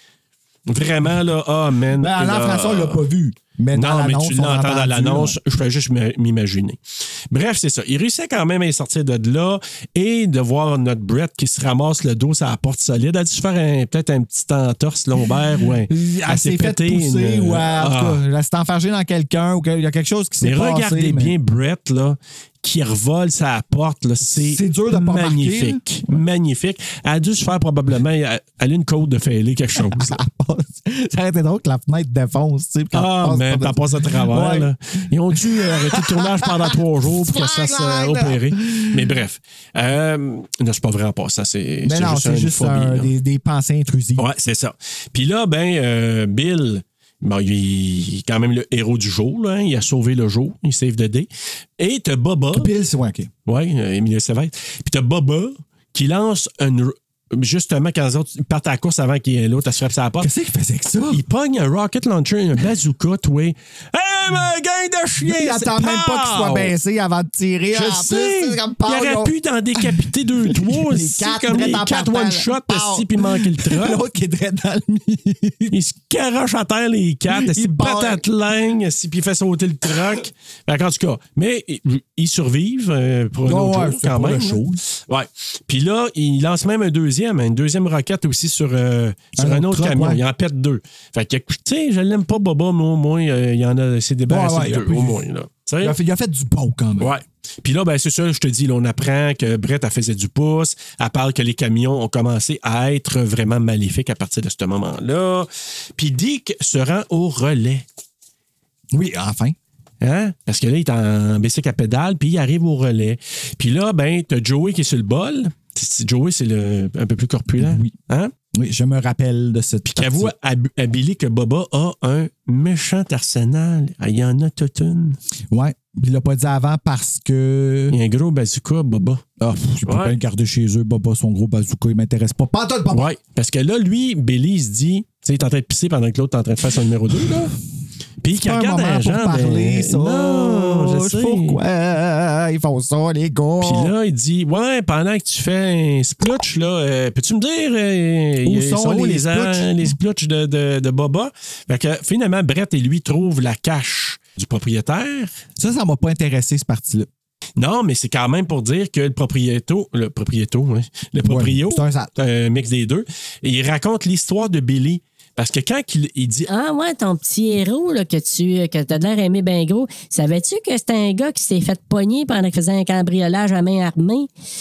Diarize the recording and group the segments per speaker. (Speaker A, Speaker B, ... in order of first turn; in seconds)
Speaker A: 0.7-3.0, 3.7-18.2, 20.4-30.2, 32.9-43.1, 44.2-52.7, 53.5-60.3, 61.1-66.7, 67.7-74.0, 75.7-96.0, 97.0-107.8, 110.0-118.3, 119.9-125.2, 127.9-129.2, 129.8-130.2, 132.9-137.6, 138.2-141.6, 143.6-155.3, 157.6-166.5
Speaker B: 2.0-5.4, 15.9-21.3, 24.3-26.2, 29.8-34.7, 35.3-39.1, 41.8-44.3, 52.5-53.3, 60.2-61.2, 65.2-75.8, 77.3-78.2, 83.5-84.8, 89.4-90.2, 94.3-95.2, 95.8-97.1, 108.9-109.6, 117.6-117.9, 118.5-120.3, 125.5-128.0, 129.4-133.1, 138.3-143.9, 148.4-150.0, 155.6-157.1, 161.2-162.1
Speaker C: 166.5-174.3